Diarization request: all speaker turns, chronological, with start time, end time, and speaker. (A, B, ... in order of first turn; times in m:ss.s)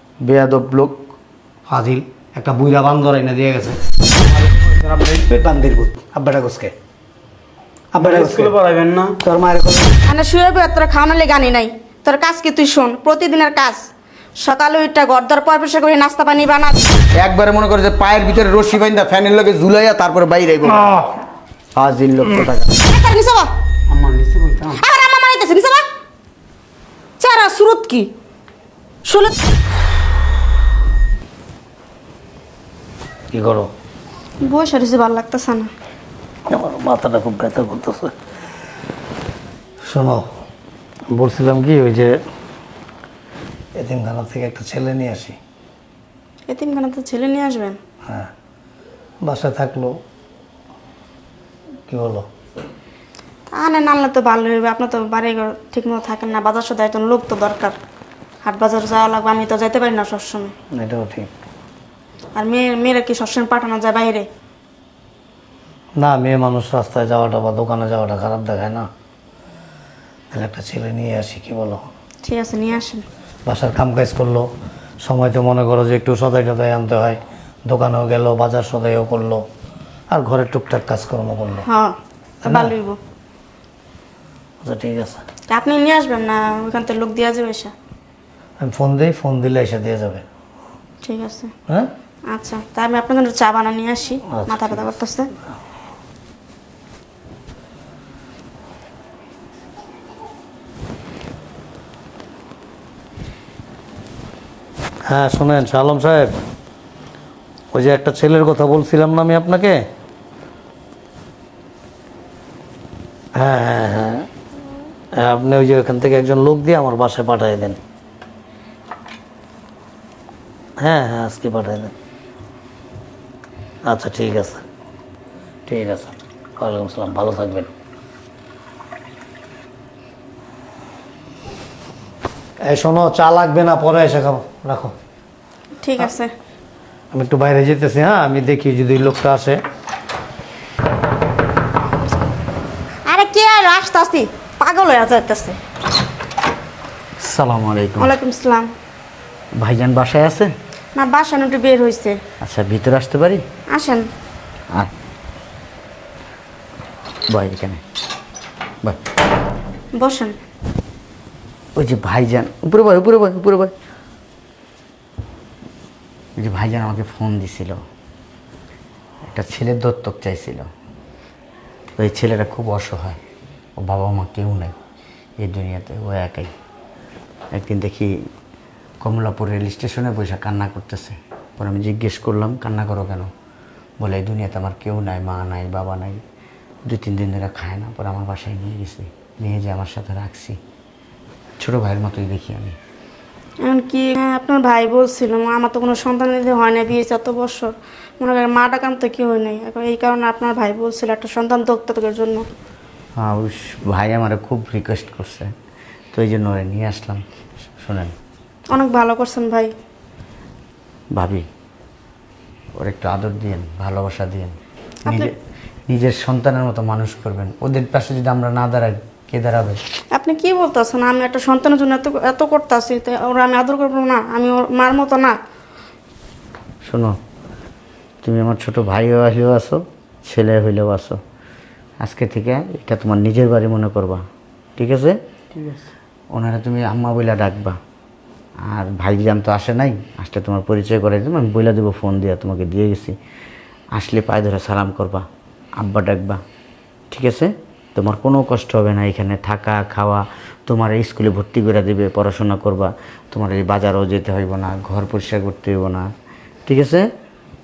0:00.2-0:01.0 A
0:01.7-0:03.8 B
0:04.2-0:05.3 C
0:05.2-0:06.7 B
0:07.9-0:08.5 B
0:08.0-0:09.2 C
0:09.2-0:10.0 B
0:10.0-0:13.9 D
0:14.4-0:16.9 D
0:17.2-0:21.0 A
0:21.8-0:22.7 A
0:22.8-0:23.5 D
0:23.9-0:24.8 C
0:24.8-0:25.8 D
0:27.2-0:28.1 D
0:29.0-0:29.4 D
0:33.3-0:33.7 B
0:34.4-0:35.7 D
0:36.5-0:38.1 B
0:39.8-0:40.2 B
0:41.1-0:42.1 B
0:43.8-0:45.4 B
0:46.5-0:47.8 D
0:49.2-0:49.9 B
0:51.9-0:52.2 B
0:53.5-0:57.8 D
0:58.4-1:00.5 D
1:00.7-1:01.3 B
1:02.3-1:04.3 D
1:06.0-1:08.8 B
1:10.3-1:11.8 B
1:12.2-1:13.0 D
1:13.4-1:14.5 B
1:15.0-1:19.4 B
1:20.1-1:21.6 B
1:21.6-1:23.0 D
1:22.4-1:22.7 B
1:24.6-1:25.2 B
1:25.5-1:27.7 D
1:28.6-1:30.2 B
1:31.0-1:31.5 D
1:32.3-1:35.3 D
1:34.3-1:34.8 B
1:45.1-1:46.3 B
1:47.7-1:49.8 B
1:53.4-1:54.3 B
1:55.2-1:57.8 B
2:00.8-2:01.9 B
2:03.8-2:04.6 B
2:05.7-2:07.7 B
2:12.6-2:14.9 B
2:15.8-2:16.3 D
2:17.1-2:19.6 B
2:23.1-2:25.6 D
2:27.2-2:28.1 A
2:28.0-2:28.7 D
2:29.5-2:30.5 A
2:30.9-2:32.2 D
2:32.4-2:33.4 A
2:33.7-2:34.1 D
2:37.3-2:37.8 A
2:39.9-2:40.3 D
2:41.8-2:43.7 A
2:46.4-2:47.8 A
2:49.2-2:50.7 A
2:52.0-2:53.2 A
2:53.8-2:54.8 A
2:55.4-2:56.5 A
2:57.5-2:58.1 A
2:59.0-3:03.3 A
3:04.0-3:06.2 A
3:06.8-3:10.6 A
3:11.6-3:12.8 A
3:13.6-3:22.4 D
3:23.2-3:25.5 A
3:26.1-3:27.2 A
3:27.8-3:28.1 A
3:28.7-3:29.7 D
3:31.1-3:31.5 A
3:32.8-3:35.3 A
3:35.0-3:35.3 D
3:35.9-3:39.8 A
3:40.1-3:45.4 D
3:46.8-3:47.2 A
3:48.2-3:51.2 A
3:52.0-3:54.2 A
3:54.8-3:55.2 A
3:55.5-3:55.8 C
3:56.3-3:57.8 A
3:58.6-4:03.2 A
4:03.9-4:05.2 A
4:05.8-4:06.4 A
4:07.1-4:16.1 A
4:16.6-4:17.1 A